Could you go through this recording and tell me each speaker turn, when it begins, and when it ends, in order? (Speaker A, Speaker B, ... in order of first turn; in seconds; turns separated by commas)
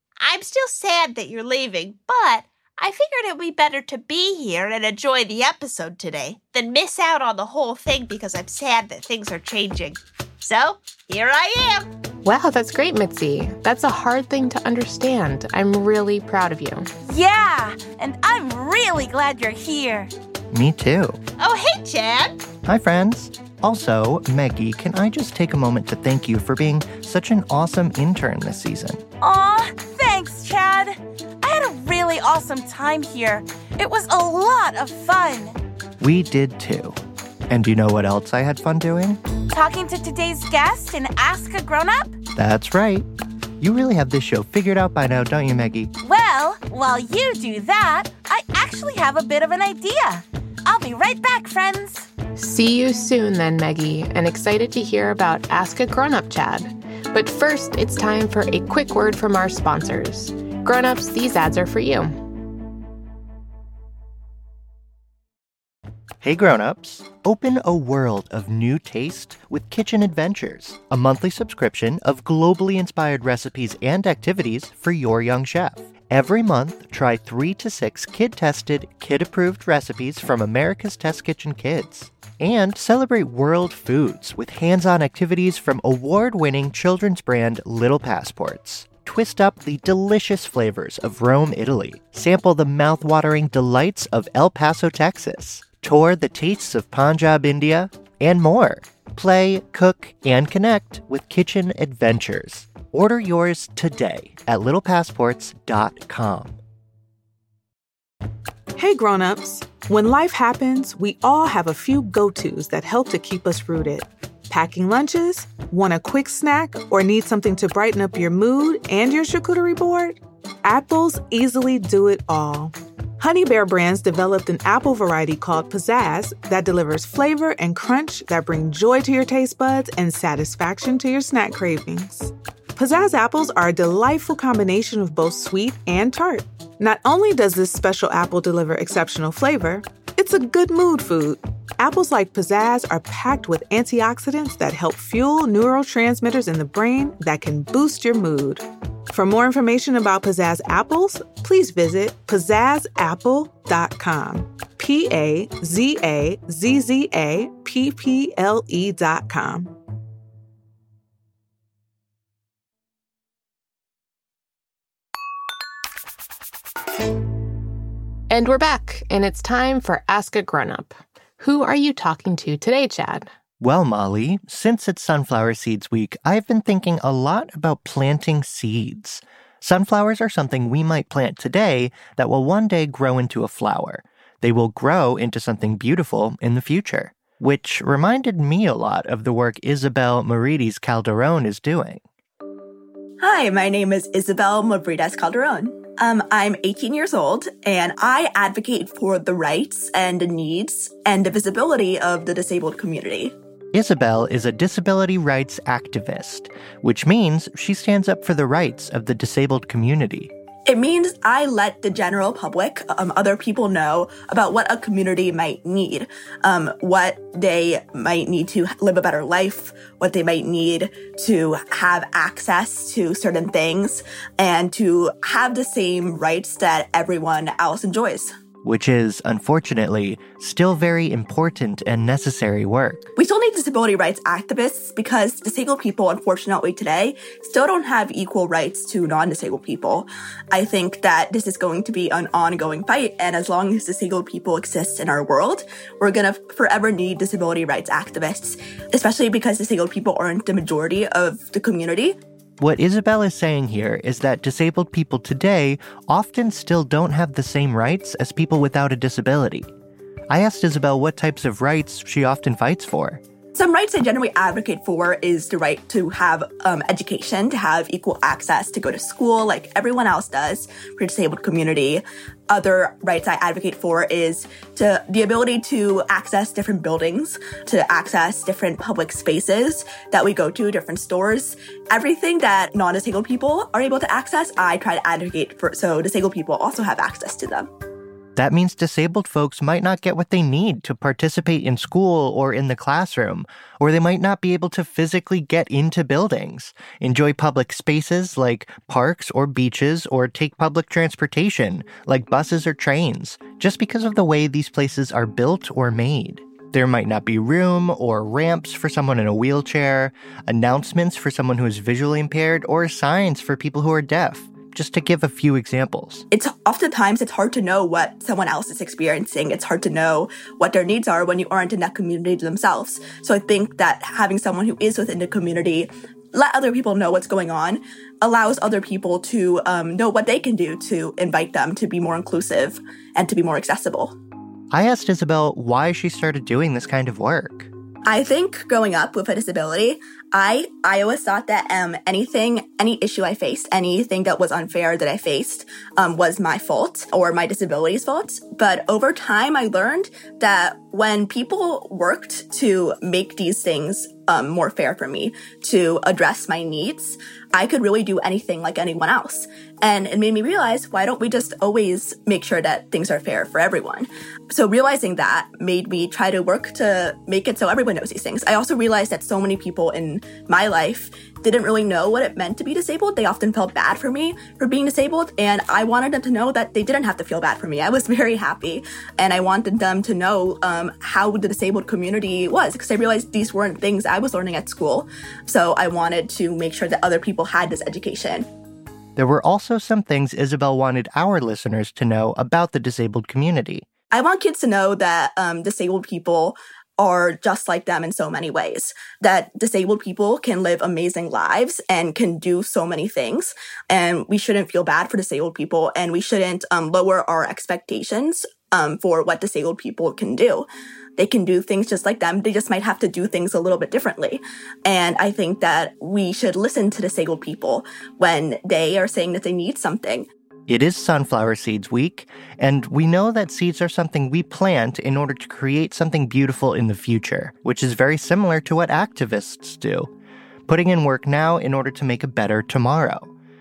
Speaker A: 0.2-11.9, Speaker B: 12.2-16.9, Speaker C: 17.0-20.1, Speaker D: 20.5-21.2, Speaker A: 21.4-22.4, Speaker D: 22.6-29.0, Speaker C: 29.2-35.6, Speaker D: 36.0-37.0, Speaker D: 37.5-39.2, Speaker C: 39.5-42.2, Speaker D: 42.4-43.1, Speaker D: 43.6-45.9, Speaker C: 46.0-52.1, Speaker B: 52.4-62.2, Speaker D: 66.2-106.6, Speaker E: 108.8-159.7, Speaker B: 168.3-173.3, Speaker D: 173.6-192.0, Speaker F: 193.2-203.3, Speaker D: 203.7-210.3, Speaker F: 210.7-228.3, Speaker D: 228.6-233.1, Speaker F: 233.2-252.2, Speaker D: 252.6-259.7, Speaker D: 260.3-263.2, Speaker F: 263.6-287.7, Speaker D: 288.4-316.2, Speaker F: 316.3-334.1, Speaker D: 334.7-337.7, Speaker F: 338.1-388.5, Speaker D: 389.2-393.9, Speaker F: 394.1-410.7, Speaker F: 411.2-420.3, Speaker D: 420.7-430.1, Speaker D: 430.7-433.3